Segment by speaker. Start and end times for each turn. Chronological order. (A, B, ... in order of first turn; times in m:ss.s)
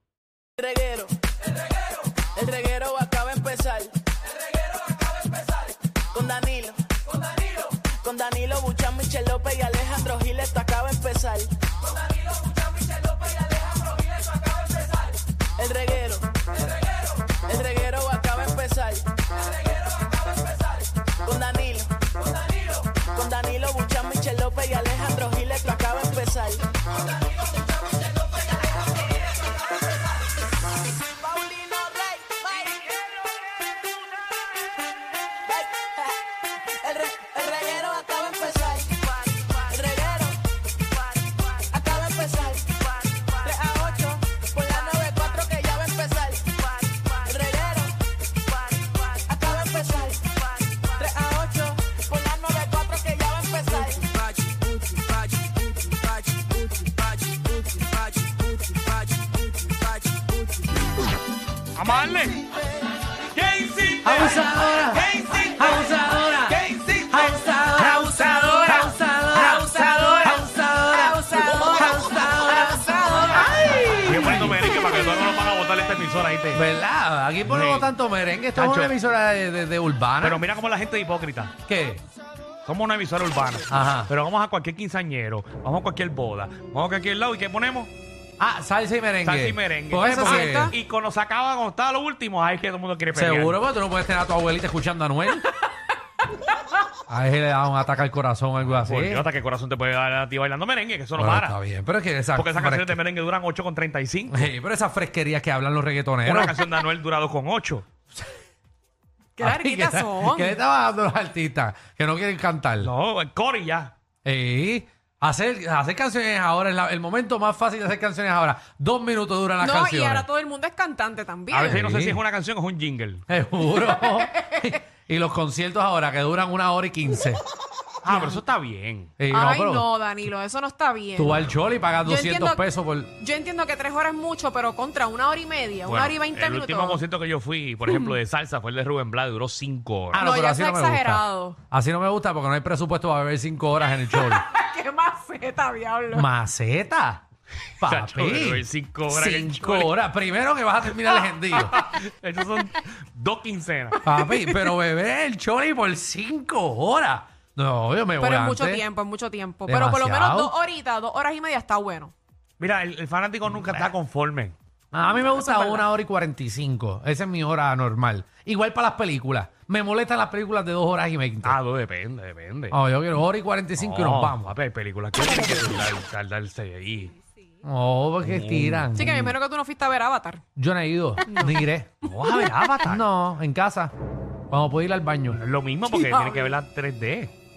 0:00.6-0:01.2 A
0:02.2-0:04.0 A
0:04.8-0:11.5 A
0:12.8-0:16.4 A
0:17.3-0:19.2 A
0:21.1-0:26.6 A
0:31.1-0:33.1 A
0:35.5-0:40.4 A
0:41.0-1:00.3 A
1:01.7-1:02.4 B
1:03.3-1:10.3 B
1:04.0-1:14.7 C
1:07.7-1:13.9 D
1:14.0-1:16.6 B
1:16.5-1:20.4 C
1:17.4-1:17.9 B
1:18.5-1:18.9 B
1:20.2-1:21.5 B
1:21.6-1:22.0 C
1:22.6-1:27.9 B
1:23.7-1:24.1 C
1:28.4-1:30.8 C
1:29.2-1:33.6 B
1:30.0-1:30.8 D
1:33.1-1:35.5 C
1:37.1-1:39.2 C
1:38.6-1:41.6 B
1:41.2-1:43.0 C
1:42.3-1:44.5 B
1:44.3-1:46.6 C
1:46.2-1:47.8 B
1:49.4-1:50.6 D
1:49.4-1:52.9 C
1:52.8-1:53.9 B
1:54.2-2:00.2 C
1:59.6-2:01.8 D
2:01.5-2:03.2 B
2:01.7-2:02.2 C
2:03.3-2:07.4 C
2:04.0-2:04.7 D
2:08.0-2:09.1 B
2:08.1-2:08.4 D
2:09.2-2:09.9 C
2:09.3-2:11.5 D
2:11.2-2:13.1 C
2:12.0-2:12.6 D
2:13.2-2:17.0 D
2:15.8-2:20.3 B
2:17.9-2:18.1 D
2:20.1-2:24.4 C
2:20.2-2:21.6 D
2:24.2-2:26.3 D
2:26.1-2:27.2 C
2:27.8-2:30.0 B
2:27.8-2:31.8 C
2:31.1-2:34.0 B
2:34.0-2:38.8 C
2:34.1-2:34.7 D
2:38.2-2:42.1 D
2:39.7-2:40.5 C
2:42.6-2:44.6 B
2:43.6-2:43.9 C
2:44.9-2:51.6 C
2:45.4-2:45.8 D
2:51.4-2:52.8 B
2:52.7-2:54.5 C
2:53.8-2:57.2 B
2:57.6-2:59.4 C
2:58.2-2:58.9 B
2:58.9-3:00.4 D
3:00.6-3:01.9 C
3:01.3-3:01.6 D
3:02.0-3:03.0 B
3:02.8-3:03.9 C
3:04.5-3:05.4 C
3:05.3-3:07.3 B
3:05.9-3:06.6 D